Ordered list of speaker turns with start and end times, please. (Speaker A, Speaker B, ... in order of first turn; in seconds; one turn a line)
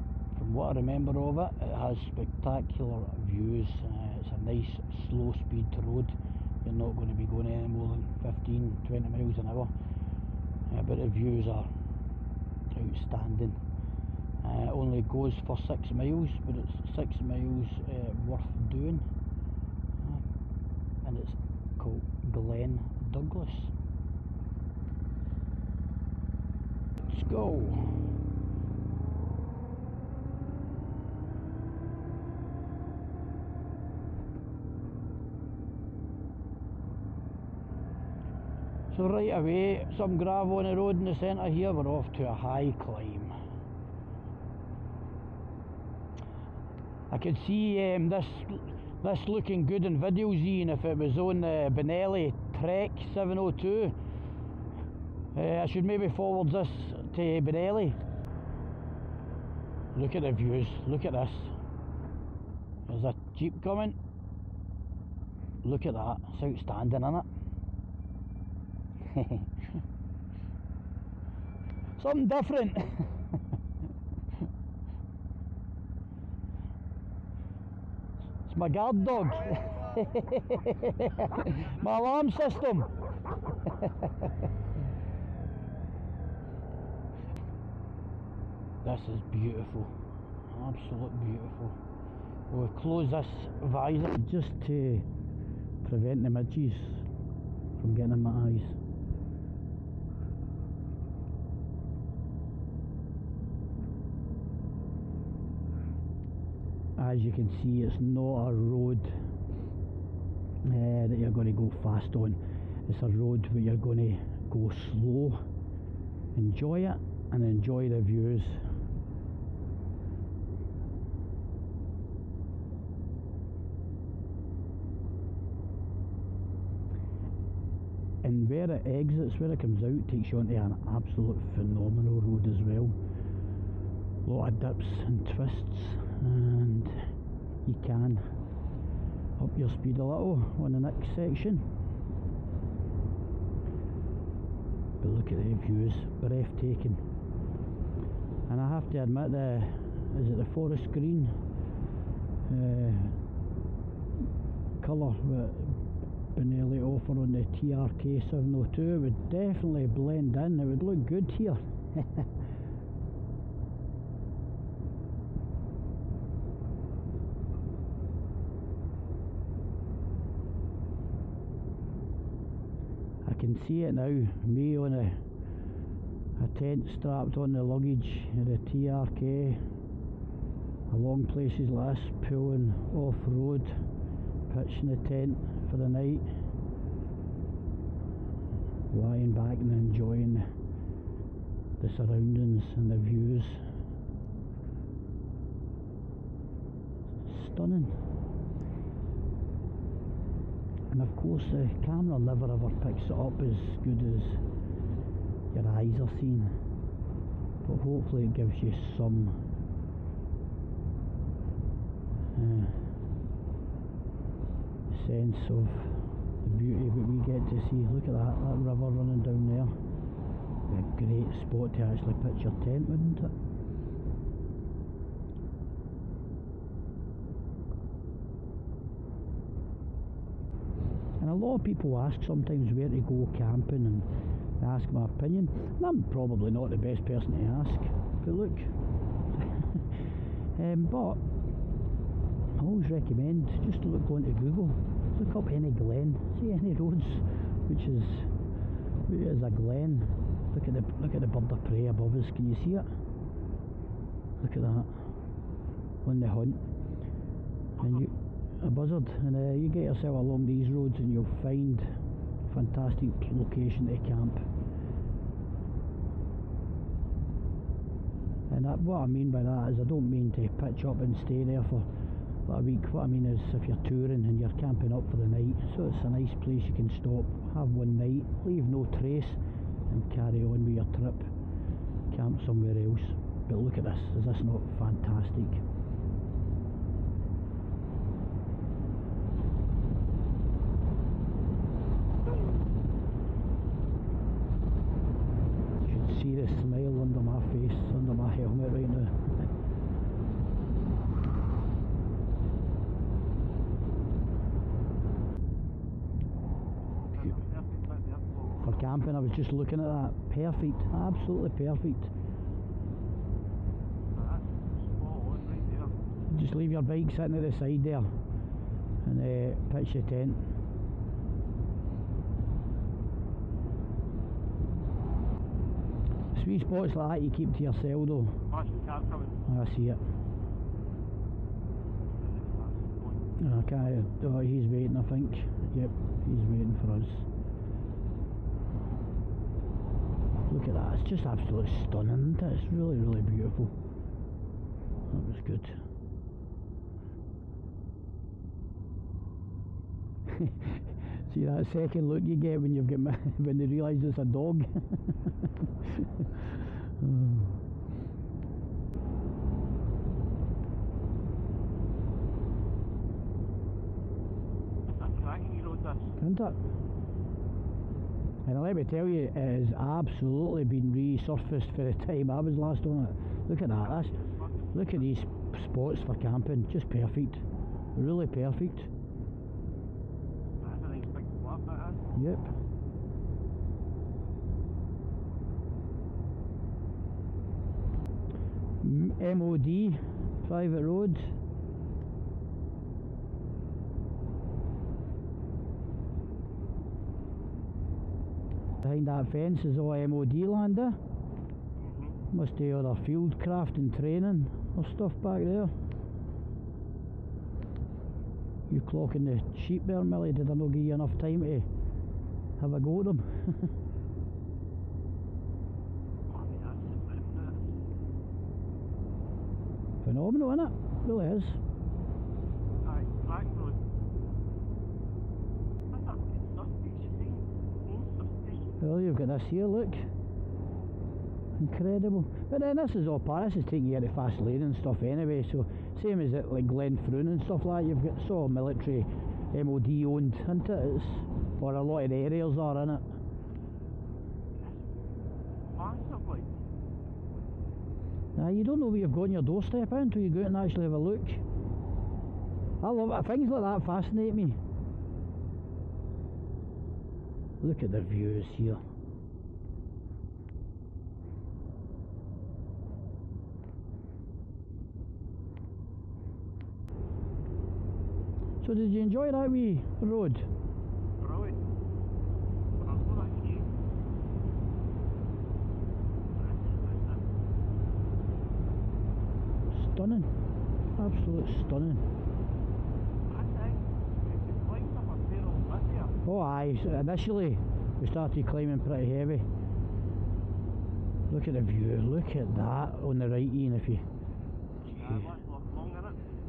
Speaker A: 0.3-9.7
Speaker A: 10.7-11.7
Speaker A: 12.7-13.6
Speaker A: 14.4-19.1
Speaker A: 20.0-20.2
Speaker A: 21.0-23.7
Speaker A: 27.0-28.0
Speaker A: 38.9-43.3
Speaker A: 47.1-53.9
Speaker A: 55.3-58.0
Speaker A: 59.9-61.5
Speaker A: 62.9-64.0
Speaker A: 65.6-67.3
Speaker A: 69.0-69.5
Speaker A: 72.0-73.1
Speaker A: 78.5-82.9
Speaker A: 88.8-89.9
Speaker A: 90.5-91.8
Speaker A: 92.5-95.0
Speaker A: 95.8-97.1
Speaker A: 97.8-98.8
Speaker A: 107.0-109.1
Speaker A: 110.6-115.4
Speaker A: 116.3-118.7
Speaker A: 128.2-133.0
Speaker A: 134.2-137.0
Speaker A: 137.6-138.3
Speaker A: 139.4-141.7
Speaker A: 145.0-147.0
Speaker A: 148.5-151.4
Speaker A: 152.5-153.2
Speaker A: 154.8-155.8
Speaker A: 156.3-162.3
Speaker A: 173.2-175.2
Speaker A: 176.4-179.6
Speaker A: 180.9-183.8
Speaker A: 184.5-186.3
Speaker A: 188.9-190.4
Speaker A: 191.8-193.7
Speaker A: 197.2-198.0
Speaker A: 200.9-204.4
Speaker A: 205.5-206.5
Speaker A: 207.6-209.3
Speaker A: 212.3-212.8
Speaker A: 214.9-219.7
Speaker A: 220.7-223.3
Speaker A: 231.2-234.1
Speaker A: 234.6-238.7
Speaker A: 239.4-239.8
Speaker A: 240.5-241.2
Speaker A: 242.6-248.3
Speaker A: 249.1-252.9
Speaker A: 254.4-255.1
Speaker A: 256.0-256.6
Speaker A: 257.8-261.9
Speaker A: 262.5-264.4
Speaker A: 268.5-271.9
Speaker A: 272.4-281.3
Speaker A: 282.1-285.6
Speaker A: 295.8-299.2
Speaker B: 307.0-308.6
Speaker A: 308.6-312.1
Speaker B: 314.1-316.0
Speaker A: 316.3-318.1
Speaker A: 319.0-320.5
Speaker A: 326.3-328.4
Speaker B: 328.5-329.4
Speaker A: 329.4-330.0
Speaker B: 332.1-333.4
Speaker A: 333.4-337.3
Speaker A: 340.5-343.7
Speaker A: 345.1-345.8
Speaker A: 350.3-355.1
Speaker A: 355.8-357.6
Speaker B: 364.9-366.1
Speaker A: 366.2-366.6
Speaker A: 368.4-374.2
Speaker B: 373.8-374.7
Speaker A: 374.7-378.9
Speaker B: 380.6-382.1
Speaker A: 382.1-382.5
Speaker A: 388.8-391.3
Speaker A: 398.8-401.0
Speaker B: 401.8-402.2
Speaker A: 402.3-405.7
Speaker A: 408.7-411.7
Speaker A: 412.6-413.7
Speaker B: 416.3-417.6
Speaker A: 420.0-421.6
Speaker B: 422.8-423.8
Speaker B: 425.9-428.8
Speaker A: 428.8-430.1
Speaker A: 431.6-443.0
Speaker B: 445.7-446.5
Speaker A: 448.4-451.4
Speaker A: 452.8-454.6
Speaker A: 457.6-458.8
Speaker A: 468.6-470.5
Speaker B: 471.2-471.6
Speaker B: 472.8-473.8
Speaker B: 476.3-477.2
Speaker A: 479.7-480.3
Speaker A: 481.0-482.1
Speaker B: 483.2-486.2
Speaker A: 486.2-489.4
Speaker A: 491.3-494.0
Speaker B: 494.9-496.2